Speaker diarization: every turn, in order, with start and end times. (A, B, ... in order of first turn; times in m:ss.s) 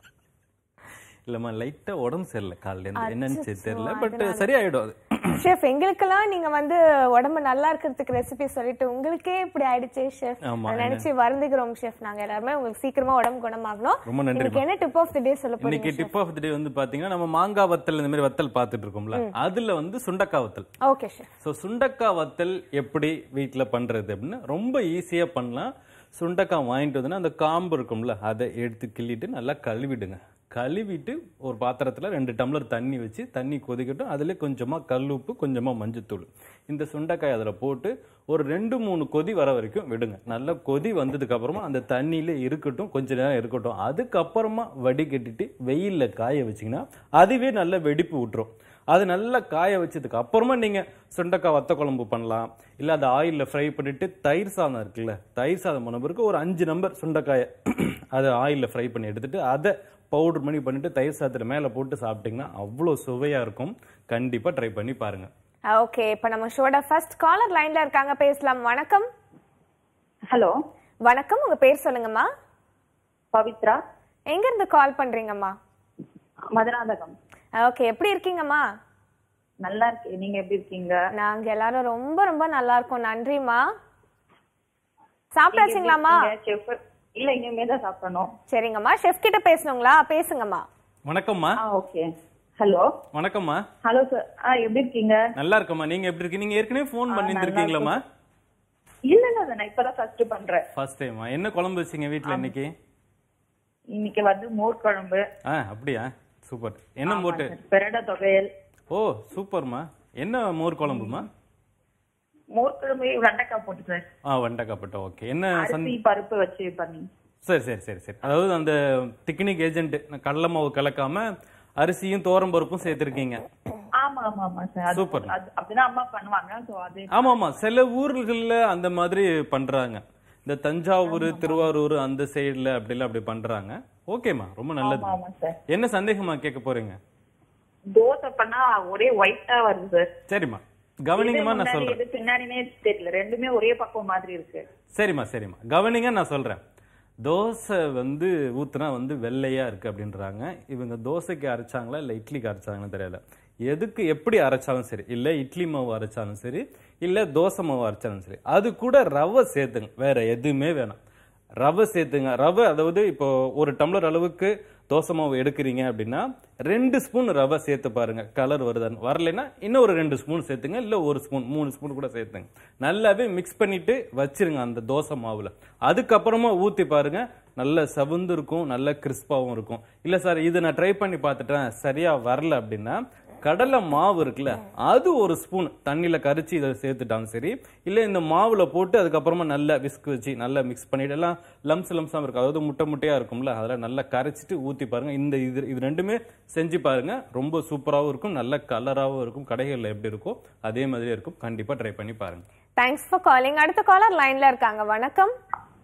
0:01.3-0:05.4 A
0:03.0-0:04.5 B
0:05.4-0:16.1 B
0:10.5-0:11.1 A
0:14.1-0:14.6 A
0:15.6-0:20.7 A
0:20.8-0:21.3 B
0:21.4-1:05.3 A
1:05.7-1:09.1 B
1:11.0-1:12.3 B
1:13.3-1:13.8 C
1:14.3-1:15.6 B
1:16.5-1:17.2 C
1:17.6-1:18.6 B
1:19.6-1:21.0 C
1:21.2-1:23.6 B
1:25.3-1:26.2 B
1:25.6-1:28.3 C
1:28.5-1:30.6 B
1:31.0-1:31.6 A
1:31.6-1:32.1 C
1:32.6-1:32.9 C
1:33.1-1:33.6 A
1:33.8-1:35.2 C
1:35.4-1:38.0 A
1:37.1-1:37.9 C
1:39.1-1:40.6 C
1:40.7-1:42.7 A
1:43.9-1:45.2 C
1:45.5-1:47.5 A
1:47.1-1:48.5 C
1:48.9-1:51.3 A
1:52.5-1:54.0 C
1:54.3-1:56.0 A
1:55.6-1:57.1 C
1:57.4-2:03.4 A
2:04.0-2:07.3 C
2:04.9-2:05.4 A
2:07.1-2:15.2 A
2:11.1-2:11.6 C
2:14.8-2:15.5 C
2:15.7-2:17.0 A
2:17.8-2:20.1 C
2:20.3-2:22.0 A
2:21.2-2:24.7 C
2:24.9-2:26.6 A
2:27.2-2:41.0 A
2:41.6-3:22.4 A
3:22.8-3:25.3 B